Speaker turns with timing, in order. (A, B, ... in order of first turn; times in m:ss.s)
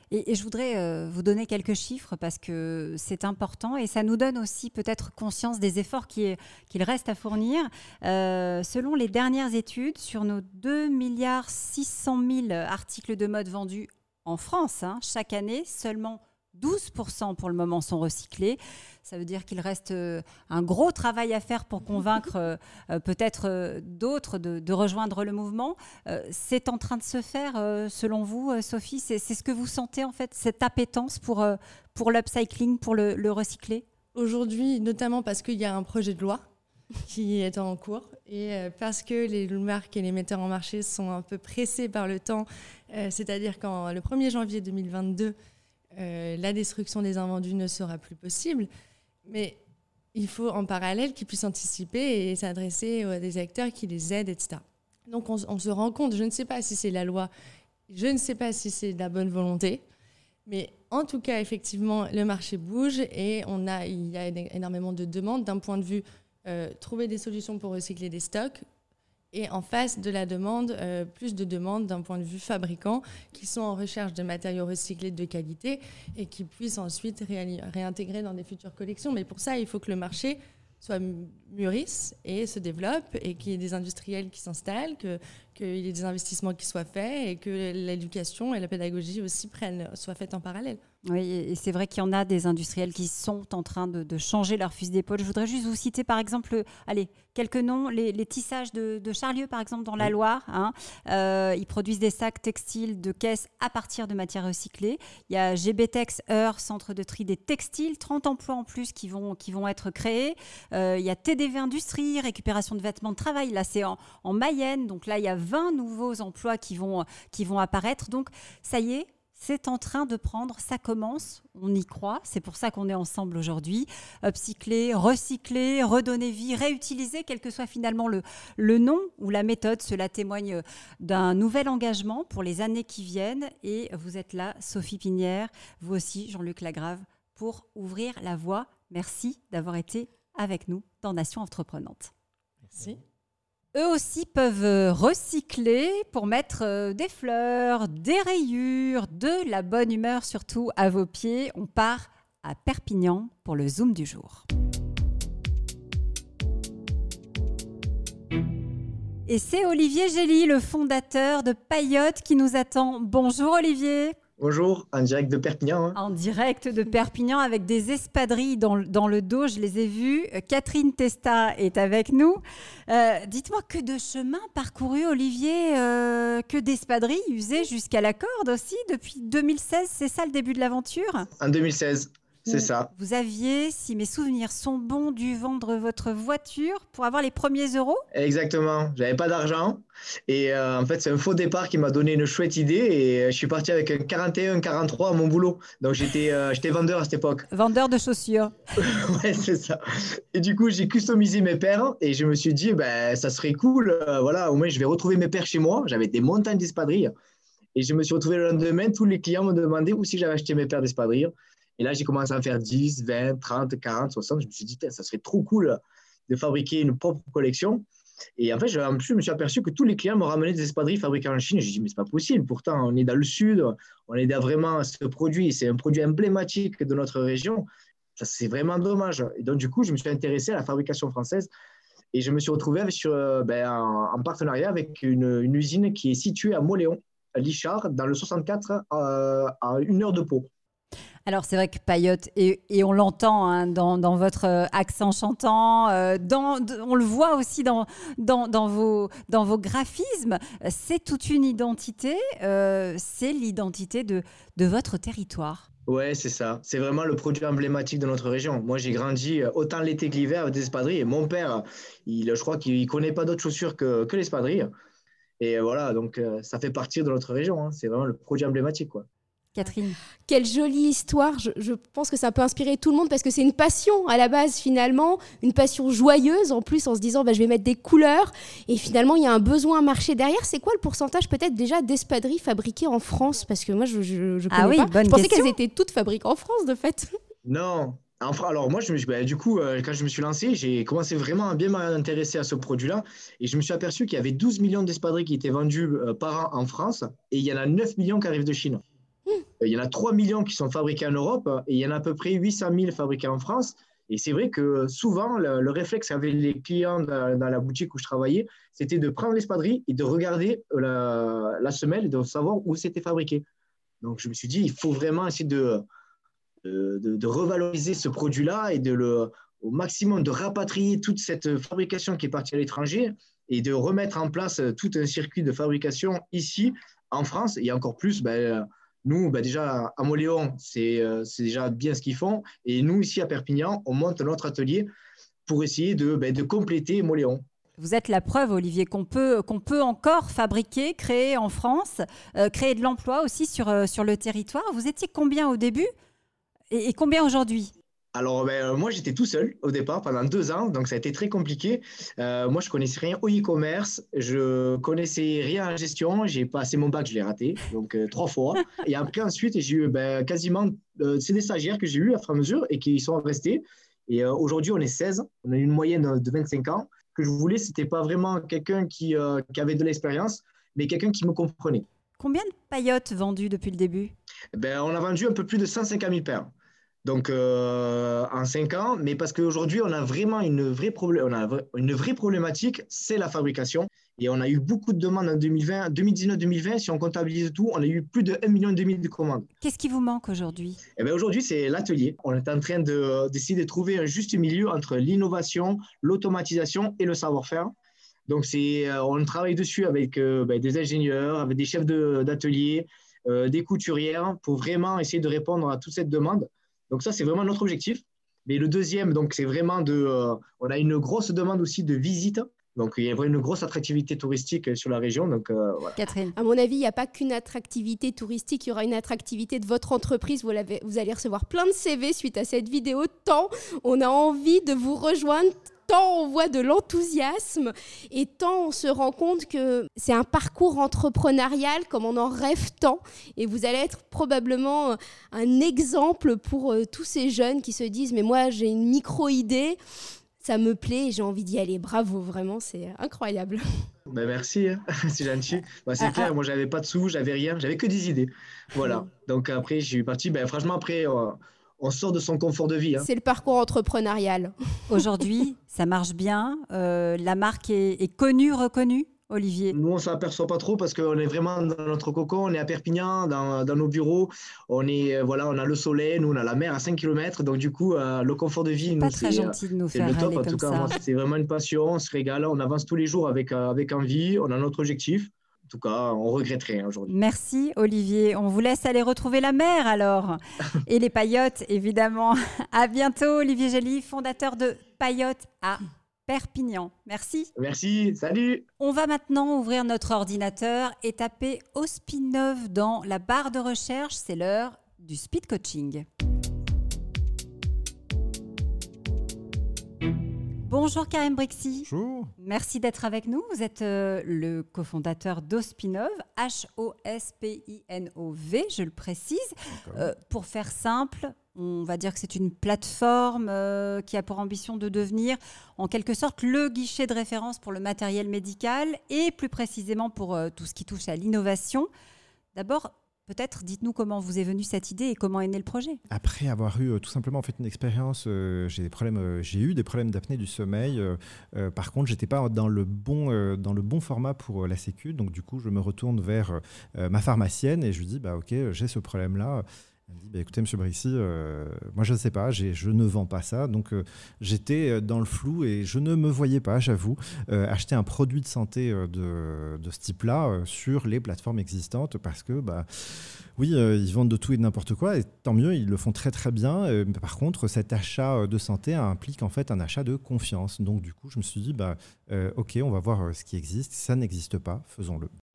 0:00.1-0:33.8 A
0:34.2-0:36.4 B
0:37.1-0:45.4 B
0:46.0-0:48.7 B
0:49.3-0:49.6 B
0:50.1-0:57.3 B
0:57.9-0:59.8 B
1:00.5-1:08.6 B
1:09.3-1:30.8 B
1:31.1-2:22.1 A
2:22.7-2:23.0 B
2:23.7-2:34.4 A
2:39.3-2:44.2 A
2:44.4-2:46.0 C
2:46.0-3:01.3 A
3:01.4-3:02.9 C
3:02.5-3:08.0 A
3:08.2-3:17.5 C
3:17.5-3:18.6 A
3:18.8-3:19.8 C
3:20.3-3:27.1 C
3:27.8-3:37.8 C
3:38.4-3:47.7 C
3:48.2-3:51.5 C
3:52.1-4:00.5 C
4:01.3-4:15.7 A
4:15.9-4:24.7 C
4:25.4-4:29.1 C
4:29.5-4:30.0 A
4:30.3-4:47.2 D
4:44.5-4:45.6 A
4:47.5-4:58.8 C
4:59.6-5:13.4 C
5:14.0-5:15.8 C
5:16.6-5:34.9 C
5:35.5-5:37.4 C
5:37.8-5:45.9 A
5:46.7-5:47.7 A
5:48.2-6:11.8 C
6:12.2-6:14.1 A
6:14.6-6:16.5 C
6:17.0-6:29.5 C
6:29.6-6:30.8 A
6:31.0-6:37.7 C
6:38.3-6:56.0 C
6:56.0-6:56.4 A
6:56.4-7:19.8 D
7:20.4-7:23.6 D
7:24.1-7:33.1 C
7:26.0-7:26.3 A
7:33.0-7:34.5 D
7:34.9-7:39.8 A
7:39.7-7:57.1 C
7:49.0-7:51.0 A
7:57.1-8:07.5 A
8:07.6-8:08.7 C
8:08.8-8:16.0 A
8:20.6-8:41.9 A
8:21.8-8:22.3 E
8:29.7-8:30.1 E
8:42.5-8:46.0 A
8:46.1-9:25.3 E